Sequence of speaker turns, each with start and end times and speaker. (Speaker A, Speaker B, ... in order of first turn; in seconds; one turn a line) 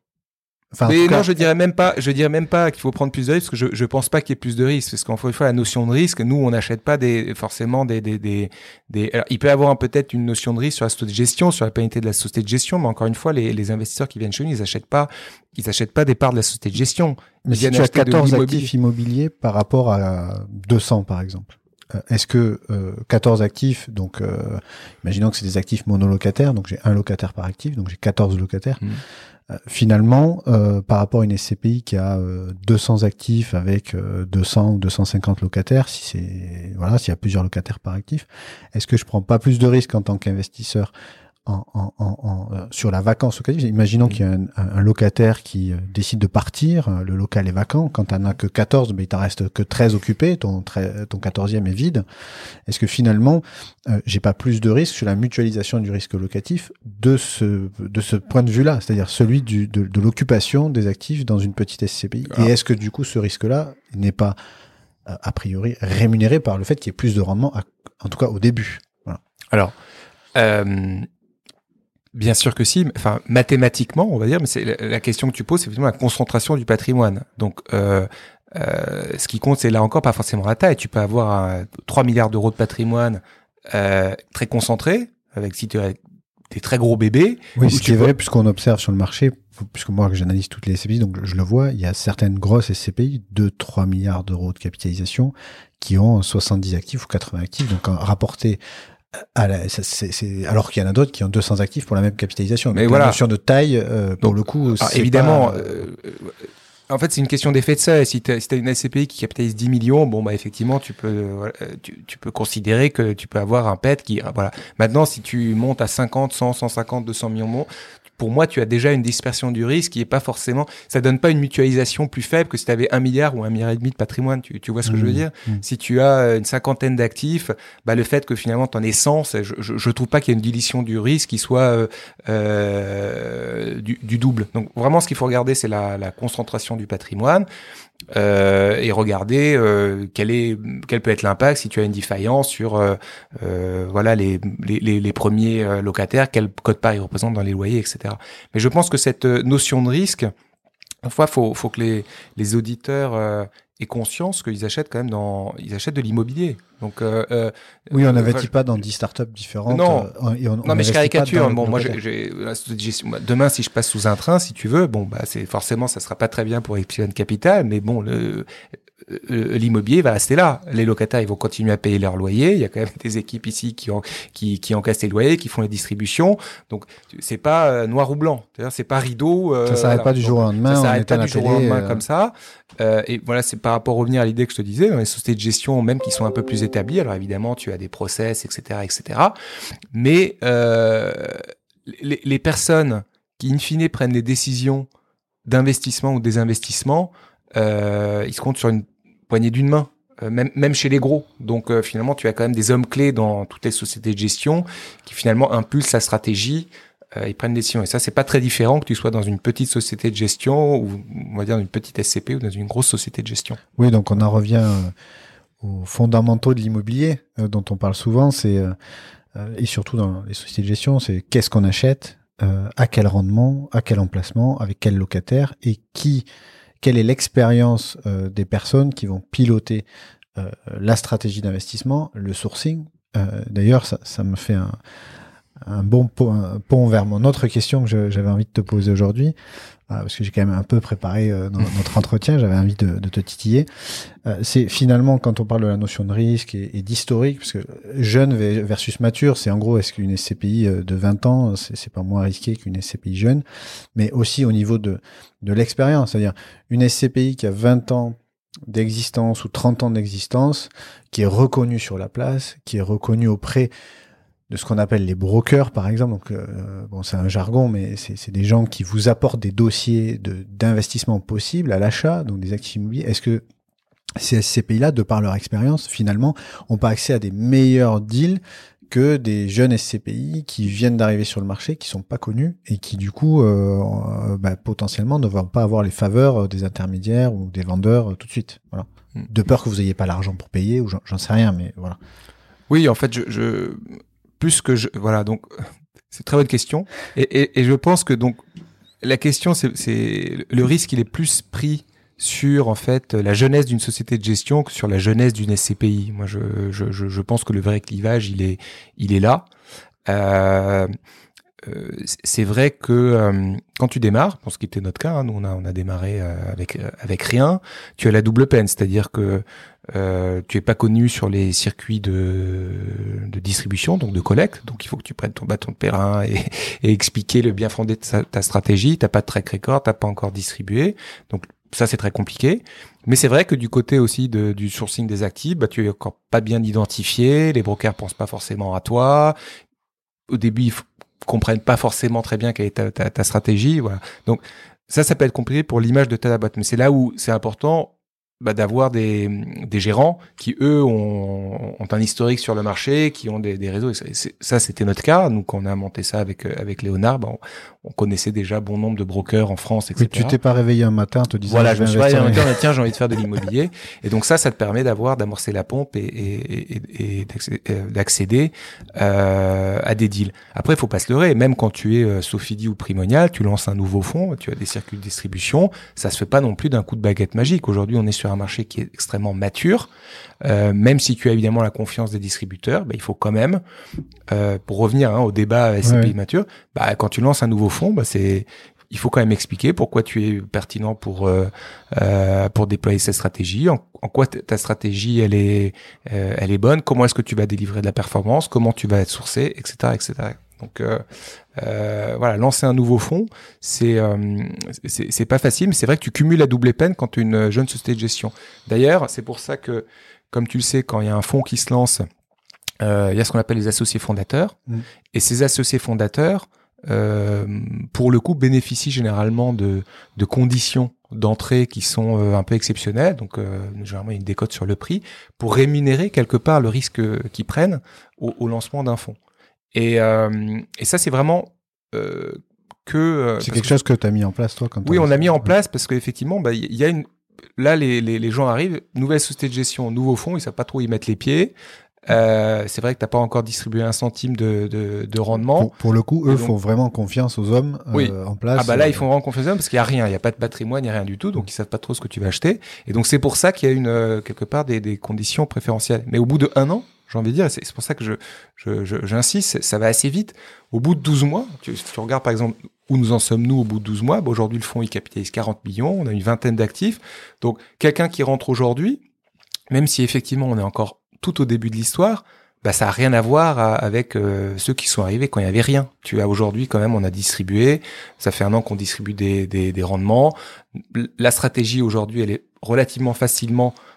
Speaker A: 0.7-1.3
Speaker B: 0.8-18.7
Speaker A: 17.5-28.8
Speaker A: 29.5-40.9
Speaker A: 41.5-52.0
Speaker A: 52.7-64.4
Speaker A: 65.1-69.2
Speaker B: 70.3-71.1
Speaker B: 72.1-86.0
Speaker B: 86.5-88.1
Speaker A: 87.6-98.6
Speaker A: 99.2-105.9
Speaker B: 102.7-103.2
Speaker B: 104.2-137.5
Speaker A: 124.9-125.6
Speaker B: 138.1-150.3
Speaker B: 151.0-158.5
Speaker A: 157.9-162.0
Speaker B: 159.7-160.1
Speaker B: 160.6-168.5
Speaker B: 169.1-189.3
Speaker A: 179.7-182.0
Speaker B: 189.9-194.9
Speaker B: 195.5-213.6
Speaker A: 213.8-214.9
Speaker A: 215.6-218.8
Speaker A: 219.3-226.3
Speaker A: 226.8-234.8
Speaker A: 235.6-239.3
Speaker A: 239.9-243.7
Speaker A: 244.2-253.4
Speaker A: 253.9-263.7
Speaker A: 264.5-273.4
Speaker A: 274.2-292.0
Speaker B: 292.7-298.4
Speaker B: 299.0-309.5
Speaker B: 310.1-310.9
Speaker B: 311.6-339.4
Speaker B: 340.3-360.4
Speaker A: 360.0-362.5
Speaker B: 361.5-379.9
Speaker B: 380.4-383.6
Speaker B: 384.3-401.0
Speaker A: 385.8-386.1
Speaker B: 401.6-412.1
Speaker B: 412.8-414.6
Speaker B: 415.1-429.2
Speaker B: 429.7-433.8
Speaker A: 433.4-435.5
Speaker B: 434.8-441.6
Speaker B: 442.1-445.7
Speaker A: 445.6-449.0
Speaker B: 446.3-446.5
Speaker B: 447.9-469.0
Speaker B: 469.7-480.4
Speaker B: 480.9-483.8